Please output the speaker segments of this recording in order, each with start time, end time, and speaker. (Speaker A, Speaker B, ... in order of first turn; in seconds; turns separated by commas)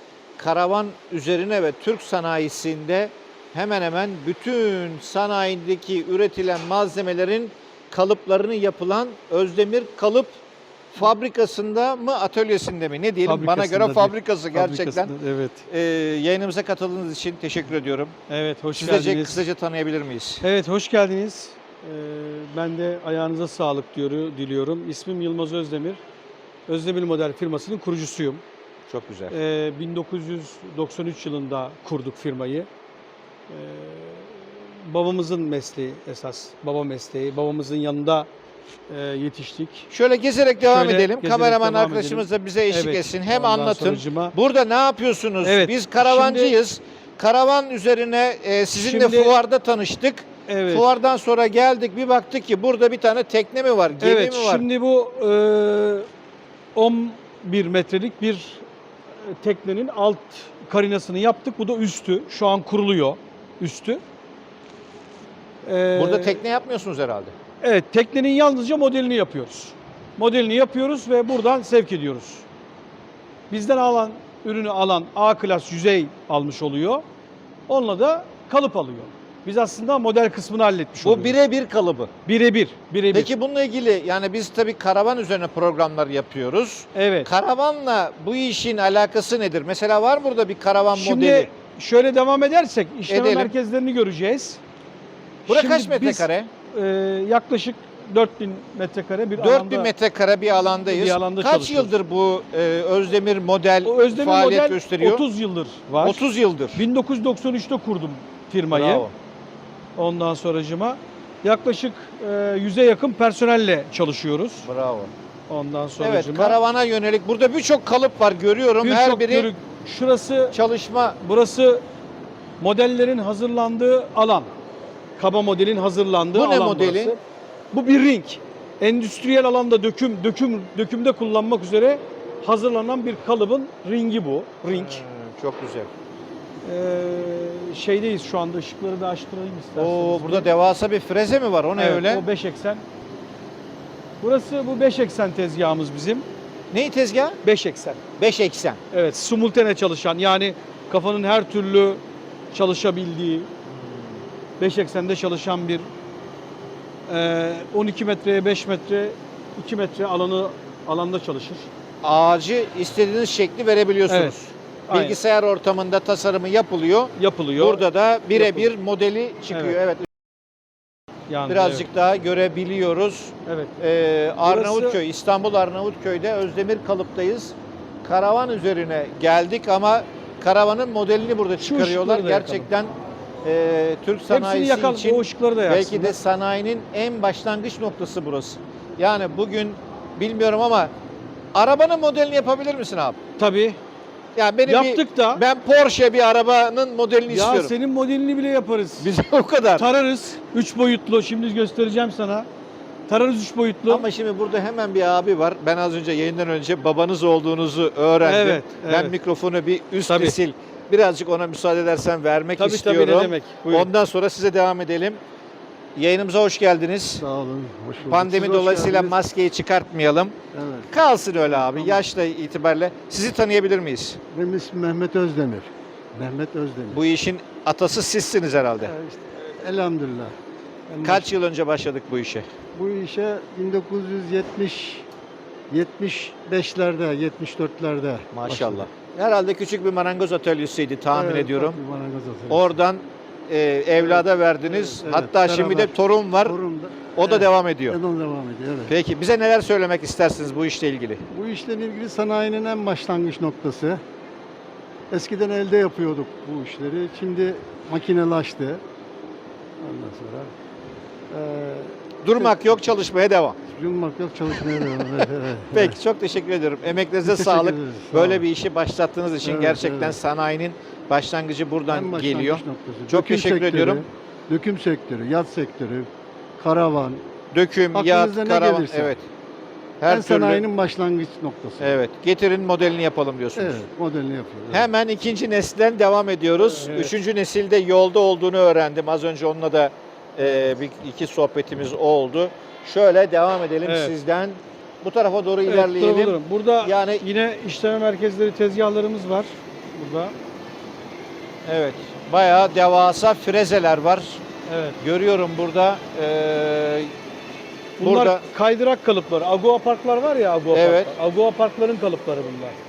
Speaker A: 0.4-10.4, Speaker A: 10.9-15.1, Speaker B: 13.2-15.7, Speaker A: 15.7-18.1, Speaker B: 18.3-19.4, Speaker A: 18.7-20.4, Speaker B: 20.4-26.0, Speaker B: 26.7-28.4, Speaker A: 28.9-29.3, Speaker B: 29.3-32.7, Speaker B: 33.5-38.3, Speaker B: 38.9-39.9, Speaker A: 39.9-54.6, Speaker B: 40.6-44.3, Speaker B: 45.4-46.6, Speaker B: 48.8-49.4, Speaker B: 50.5-50.9, Speaker B: 54.0-56.1, Speaker B: 56.8-58.6, Speaker B: 59.2-64.0, Speaker B: 65.6-66.4, Speaker A: 65.9-67.4, Speaker B: 67.6-72.5, Speaker B: 73.5-77.1, Speaker B: 77.7-81.4, Speaker A: 81.0-82.1, Speaker B: 82.2-83.3, Speaker A: 83.1-91.5, Speaker B: 86.9-87.3, Speaker B: 90.9-94.6, Speaker A: 93.1-93.5, Speaker B: 95.5-99.9, Speaker A: 95.5-96.5, Speaker A: 99.4-105.2, Speaker B: 100.9-102.0, Speaker B: 103.8-109.1, Speaker A: 106.0-106.8, Speaker A: 108.7-109.1, Speaker B: 110.0-114.7, Speaker A: 114.6-115.1, Speaker B: 115.5-116.6, Speaker A: 116.0-119.5, Speaker B: 118.8-120.6, Speaker A: 120.5-121.2, Speaker B: 121.2-121.8, Speaker B: 122.6-124.5, Speaker B: 125.2-127.2, Speaker A: 126.3-127.2, Speaker B: 127.7-135.0, Speaker A: 134.7-135.9, Speaker B: 136.6-140.5, Speaker A: 139.7-142.2, Speaker B: 141.8-142.8, Speaker B: 144.2-146.3, Speaker A: 146.7-147.4, Speaker B: 147.4-148.0, Speaker A: 148.2-148.8, Speaker B: 148.9-153.5, Speaker A: 153.7-154.2, Speaker B: 154.6-155.9, Speaker B: 157.1-161.7, Speaker A: 162.0-170.1, Speaker B: 164.1-164.4, Speaker B: 164.9-165.2, Speaker B: 167.2-168.7, Speaker B: 169.5-169.8, Speaker B: 171.3-171.8, Speaker A: 171.5-190.9, Speaker B: 173.4-173.8, Speaker B: 174.4-175.0, Speaker B: 181.6-182.7, Speaker B: 184.3-186.2, Speaker A: 191.5-193.2, Speaker B: 193.4-193.8, Speaker A: 194.3-197.7, Speaker B: 194.7-195.4, Speaker B: 197.2-199.1, Speaker A: 199.0-199.9, Speaker B: 199.7-202.5, Speaker B: 203.1-204.1, Speaker A: 203.9-215.2, Speaker B: 208.2-209.2, Speaker B: 210.1-210.4, Speaker B: 212.6-213.9, Speaker A: 215.9-217.2, Speaker C: 217.2-219.2, Speaker A: 218.0-220.3, Speaker C: 220.5-220.9, Speaker A: 220.9-224.2, Speaker C: 224.3-227.0, Speaker A: 226.9-228.9, Speaker C: 228.8-230.3, Speaker C: 230.9-231.3, Speaker A: 231.0-232.5, Speaker C: 232.7-235.1, Speaker C: 235.7-238.9, Speaker A: 238.3-241.8, Speaker C: 241.1-242.7, Speaker A: 242.5-246.6, Speaker C: 243.9-248.9, Speaker A: 247.2-248.0, Speaker A: 248.9-251.2, Speaker C: 251.3-254.0, Speaker C: 255.1-258.8, Speaker C: 259.8-260.5, Speaker C: 261.3-262.7, Speaker A: 262.2-263.6, Speaker C: 263.7-266.0, Speaker A: 265.0-274.1, Speaker C: 267.2-268.4, Speaker C: 269.4-270.2, Speaker C: 271.9-277.2, Speaker A: 277.5-279.3, Speaker C: 277.9-279.1, Speaker A: 280.0-280.6, Speaker C: 280.1-282.0, Speaker A: 281.8-283.8, Speaker C: 283.6-284.9, Speaker A: 284.7-297.2, Speaker B: 286.6-287.1, Speaker B: 293.8-294.1, Speaker B: 295.7-300.4, Speaker A: 301.6-304.4, Speaker B: 304.7-305.0, Speaker A: 305.0-307.1, Speaker B: 308.0-312.8, Speaker A: 308.0-308.4, Speaker A: 310.7-311.1